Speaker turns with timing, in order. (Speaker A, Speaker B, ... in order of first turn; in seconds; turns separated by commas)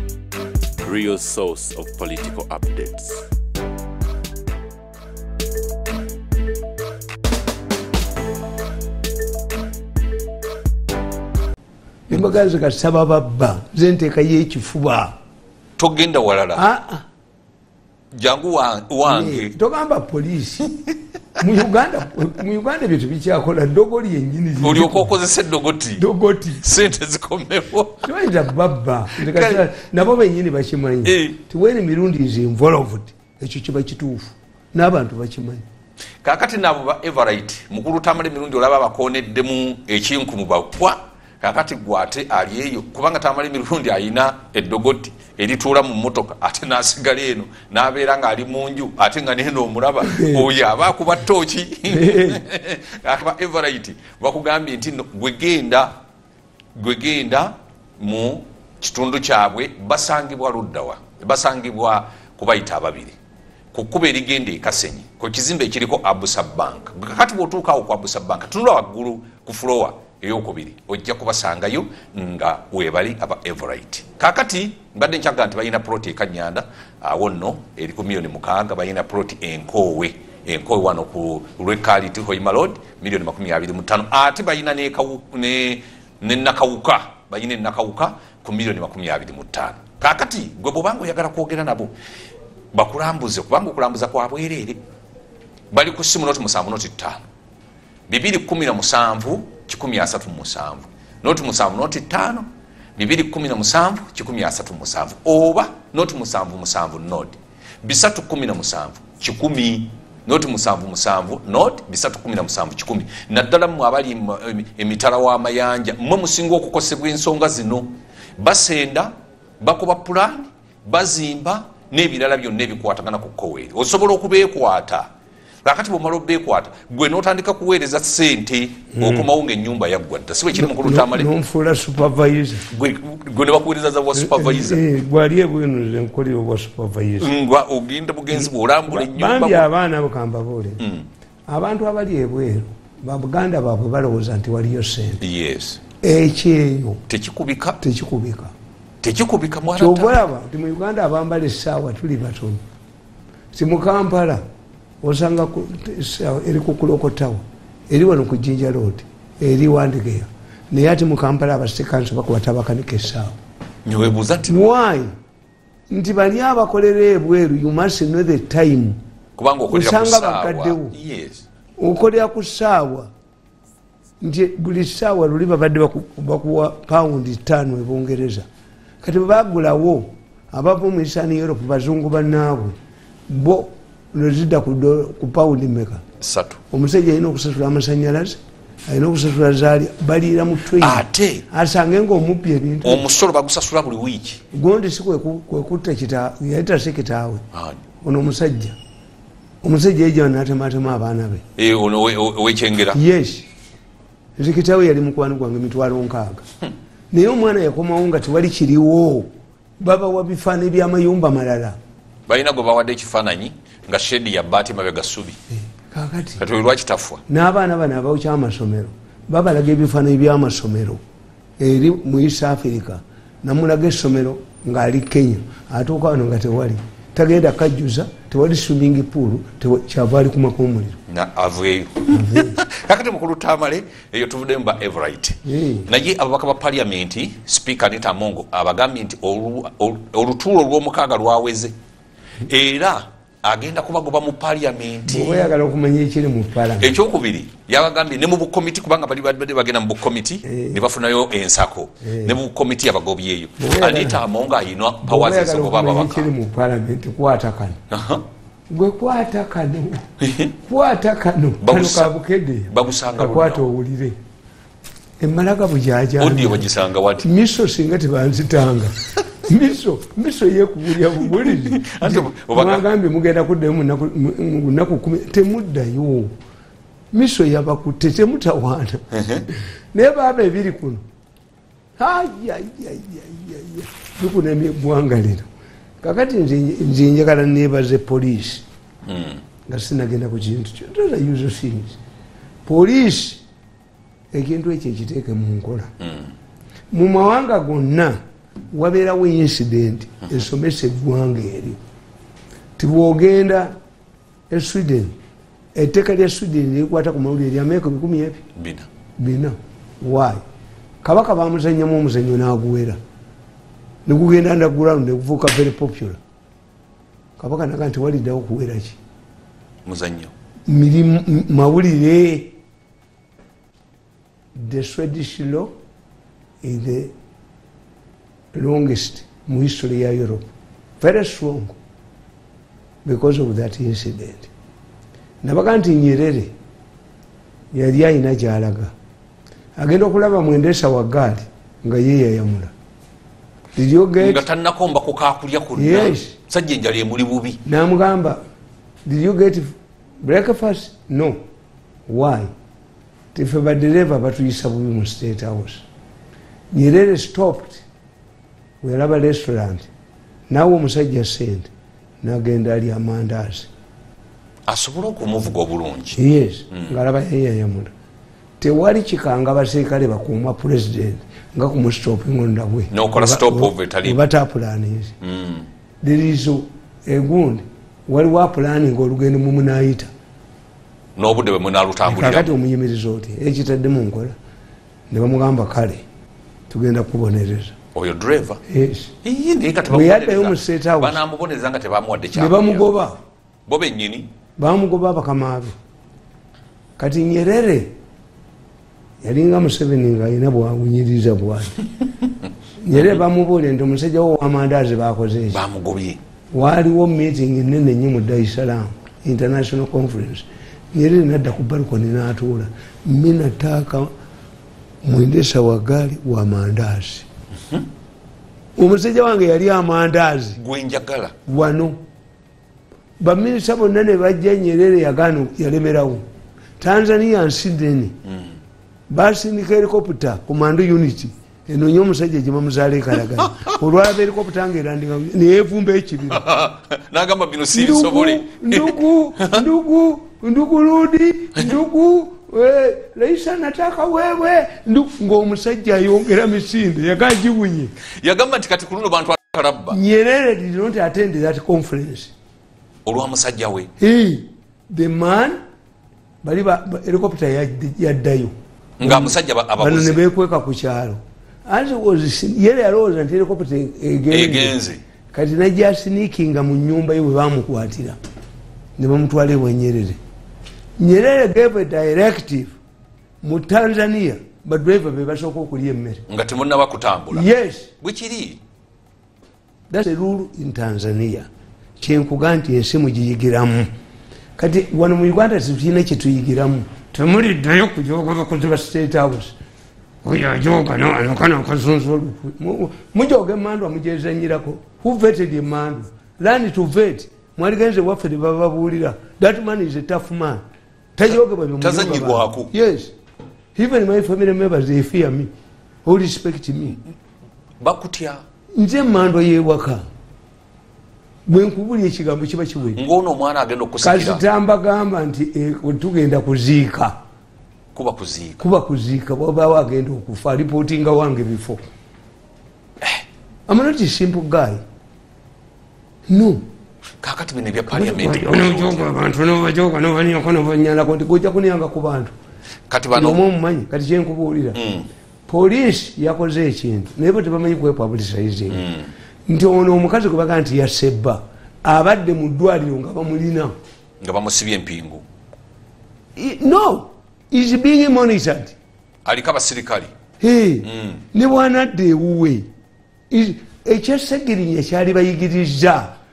Speaker A: 0.8-3.2, Speaker B: 12.1-15.2, Speaker C: 15.8-16.6, Speaker B: 16.6-17.1, Speaker C: 18.1-19.5, Speaker B: 19.1-20.7, Speaker C: 20.6-20.9, Speaker B: 21.4-25.1, Speaker C: 24.6-28.1, Speaker B: 26.0-26.6, Speaker B: 28.0-35.6, Speaker C: 29.1-29.7, Speaker C: 31.0-31.4, Speaker C: 36.2-55.9, Speaker B: 50.0-50.5, Speaker B: 51.9-52.4, Speaker C: 56.8-63.2, Speaker C: 63.7-91.9, Speaker C: 92.7-94.8, Speaker C: 95.7-97.2, Speaker C: 98.1-125.1, Speaker C: 125.6-131.3, Speaker B: 128.9-129.3, Speaker B: 130.5-132.7, Speaker C: 132.7-134.8, Speaker B: 134.1-137.3, Speaker C: 137.2-139.7, Speaker B: 138.3-140.8, Speaker C: 140.8-141.1, Speaker B: 141.5-145.2, Speaker C: 145.2-145.8, Speaker B: 146.0-147.0, Speaker C: 147.1-147.8, Speaker B: 147.8-148.5, Speaker C: 149.0-150.2, Speaker B: 149.8-152.6, Speaker B: 153.5-154.4, Speaker B: 155.0-163.4, Speaker C: 163.8-164.7, Speaker B: 164.5-165.1, Speaker B: 165.9-169.0, Speaker C: 169.4-171.4, Speaker B: 169.7-170.9, Speaker B: 171.8-173.1, Speaker B: 174.2-178.5, Speaker B: 179.0-182.8, Speaker B: 183.3-186.0, Speaker C: 186.2-186.6, Speaker B: 186.7-193.1, Speaker C: 190.8-191.5, Speaker C: 192.8-194.4, Speaker B: 194.5-197.4, Speaker C: 197.5-197.8, Speaker B: 198.0-198.8, Speaker B: 199.6-201.4, Speaker C: 201.6-203.0, Speaker B: 202.9-203.5, Speaker B: 204.4-206.5, Speaker B: 207.1-209.3, Speaker B: 209.8-211.8, Speaker C: 212.3-215.4, Speaker B: 215.7-216.4, Speaker C: 216.4-217.2, Speaker B: 217.3-221.0, Speaker B: 221.6-231.0, Speaker C: 231.1-241.7, Speaker B: 232.1-232.6, Speaker B: 235.4-235.9, Speaker C: 242.5-245.5, Speaker B: 245.1-246.9, Speaker C: 246.8-256.3, Speaker B: 250.4-250.8, Speaker B: 252.0-252.4, Speaker B: 253.6-254.2, Speaker B: 255.0-257.8, Speaker C: 257.9-258.2, Speaker B: 258.7-260.0, Speaker C: 260.2-260.5, Speaker B: 260.6-264.2, Speaker C: 261.6-262.1, Speaker C: 262.7-263.6, Speaker B: 265.2-266.7, Speaker C: 266.2-267.3, Speaker B: 267.2-276.3, Speaker C: 271.2-272.9, Speaker B: 277.1-281.0, Speaker C: 279.1-279.4, Speaker B: 282.0-285.5, Speaker B: 286.0-288.6, Speaker C: 289.1-289.4, Speaker B: 289.7-292.0, Speaker B: 292.6-293.4, Speaker B: 294.3-295.9, Speaker C: 296.0-296.3, Speaker B: 296.9-298.2, Speaker B: 298.7-301.8, Speaker B: 302.8-303.8, Speaker B: 304.5-305.1, Speaker B: 305.7-308.4, Speaker C: 308.6-308.9, Speaker B: 309.2-310.4, Speaker B: 311.0-313.0, Speaker B: 314.1-316.2, Speaker B: 317.4-319.0, Speaker C: 319.9-320.3, Speaker B: 320.7-322.6, Speaker B: 324.6-325.7, Speaker B: 326.6-327.1, Speaker B: 328.5-330.5, Speaker B: 331.0-331.8, Speaker B: 333.1-334.5, Speaker B: 335.4-336.5, Speaker B: 337.7-338.9, Speaker B: 339.8-342.7, Speaker B: 343.8-344.4, Speaker C: 344.2-347.6, Speaker B: 345.8-346.4, Speaker B: 347.6-348.4, Speaker B: 349.1-351.4, Speaker B: 352.1-352.5, Speaker B: 353.3-355.9, Speaker B: 356.7-357.9, Speaker B: 358.8-359.9, Speaker B: 360.5-361.7, Speaker B: 362.2-363.7, Speaker C: 364.7-366.2, Speaker B: 366.1-367.9, Speaker B: 368.6-375.1, Speaker C: 372.9-374.2, Speaker C: 375.2-375.7, Speaker B: 376.0-380.1, Speaker C: 381.2-382.5, Speaker B: 382.1-384.4, Speaker B: 385.1-386.0, Speaker B: 386.7-387.8, Speaker C: 387.9-388.6, Speaker B: 388.7-389.1, Speaker C: 389.2-392.9, Speaker B: 389.9-391.2, Speaker B: 392.3-393.2, Speaker C: 393.7-394.3, Speaker B: 394.6-395.7, Speaker B: 397.0-397.9, Speaker B: 399.2-401.8, Speaker B: 402.8-405.6, Speaker C: 402.9-403.2, Speaker C: 405.5-406.2, Speaker B: 406.5-414.1, Speaker B: 415.0-417.3, Speaker B: 418.8-420.6, Speaker C: 420.6-421.3, Speaker B: 421.5-422.0, Speaker B: 423.2-426.2, Speaker B: 426.8-428.2, Speaker B: 429.1-436.4, Speaker C: 436.3-439.7, Speaker B: 437.7-447.9, Speaker C: 448.2-450.0, Speaker B: 449.9-452.3, Speaker C: 453.1-453.9, Speaker B: 454.0-455.6, Speaker B: 456.4-464.8, Speaker C: 459.0-460.2, Speaker C: 464.3-465.0, Speaker B: 465.3-468.2, Speaker B: 469.0-470.2, Speaker B: 471.0-472.8, Speaker B: 473.4-476.2, Speaker C: 476.3-478.6, Speaker B: 477.3-477.9, Speaker B: 479.9-483.9, Speaker B: 484.6-489.6, Speaker B: 490.2-500.6, Speaker B: 501.2-503.1, Speaker C: 501.8-502.7, Speaker B: 503.8-505.5, Speaker B: 506.1-507.0, Speaker C: 507.8-508.4, Speaker B: 508.8-510.0, Speaker B: 511.5-513.0, Speaker C: 513.0-514.4, Speaker B: 514.0-517.2, Speaker C: 517.9-518.7, Speaker B: 518.6-521.8, Speaker B: 523.7-524.8, Speaker B: 526.3-526.6, Speaker C: 527.2-529.1, Speaker B: 527.9-532.4, Speaker C: 532.9-533.4, Speaker B: 533.1-534.8, Speaker C: 534.8-535.1, Speaker B: 535.5-538.9, Speaker C: 538.7-539.1, Speaker B: 539.5-543.8, Speaker C: 544.2-545.2, Speaker B: 546.4-548.8, Speaker C: 549.2-550.1, Speaker B: 550.4-552.7, Speaker C: 550.8-551.2, Speaker B: 553.3-556.2